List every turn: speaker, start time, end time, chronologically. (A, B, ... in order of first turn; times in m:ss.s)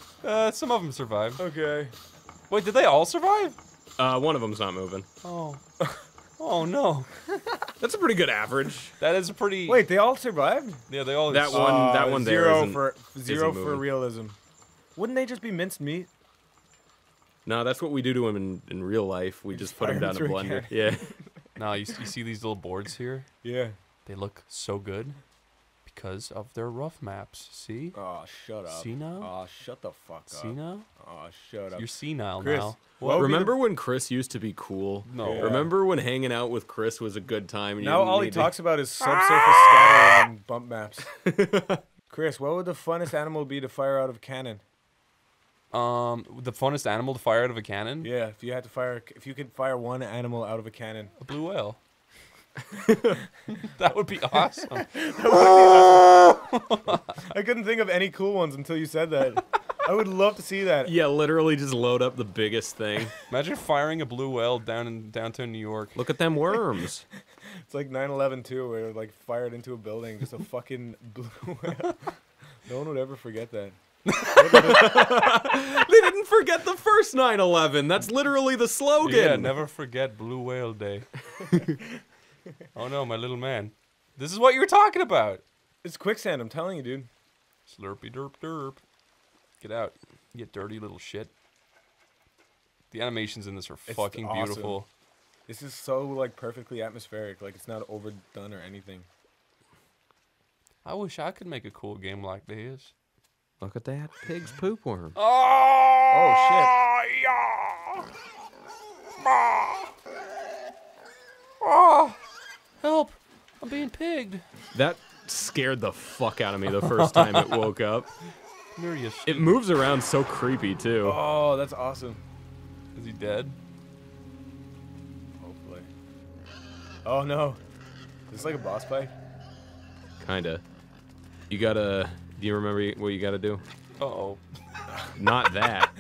0:00.2-0:01.4 A
0:01.4-0:01.9 B
0:02.5-0:03.6 A
0:04.0-0:05.1 C
0:05.2-0:05.6 A
0:06.4-0:07.1 A
0:07.8-0:08.9 C
0:09.0-0:09.8 A
0:09.7-0:10.8 B
0:10.9-0:11.9 A
0:11.3-0:13.9 C
0:11.5-0:14.4 B
0:15.0-0:16.1 B
0:17.4-0:21.1 C
0:19.5-0:21.5 B
0:21.6-0:23.3 A
0:23.4-0:23.8 B
0:24.0-0:25.2 A
0:25.8-0:28.0 A
0:27.9-0:33.6 B
0:28.7-0:29.3 A
0:30.3-0:30.9 A
0:31.8-0:33.3 A
0:33.1-0:38.5 C
0:35.0-0:35.7 A
0:35.2-0:35.7 B
0:37.8-0:41.1 B
0:41.2-0:41.8 C
0:42.1-0:44.6 B
0:45.7-0:48.1 A
0:48.0-0:51.1 B
0:51.2-0:51.8 A
0:52.9-0:53.2 C
0:53.6-0:57.2 A
0:54.8-0:56.1 B
0:57.2-1:00.9 B
1:00.8-1:03.1 C
1:03.3-1:06.0 A
1:06.0-1:07.0 C
1:07.7-1:13.8 B
1:14.1-1:14.7 A
1:14.4-1:15.2 B
1:14.5-1:19.6 C
1:19.0-1:21.1 A
1:22.8-1:25.4 A
1:25.8-1:27.1 B
1:27.7-1:28.8 A
1:29.6-1:31.3 A
1:32.9-1:34.9 A
1:33.9-1:34.8 B
1:35.5-1:39.1 B
1:40.8-1:42.9 A
1:43.6-1:45.2 C
1:45.2-1:48.1 A
1:46.1-1:46.7 B
1:49.2-1:49.9 A
1:51.6-1:52.2 A
1:52.8-1:54.4 A
1:54.7-1:58.1 C
1:56.7-1:57.7 A
1:58.8-1:59.6 A
1:59.3-2:01.2 C
2:01.0-2:02.2 B
2:02.9-2:03.6 A
2:05.4-2:05.9 B
2:07.0-2:07.6 B
2:08.3-2:09.1 B
2:10.2-2:10.6 C
2:11.5-2:13.6 C
2:14.0-2:14.4 A
2:15.2-2:15.9 C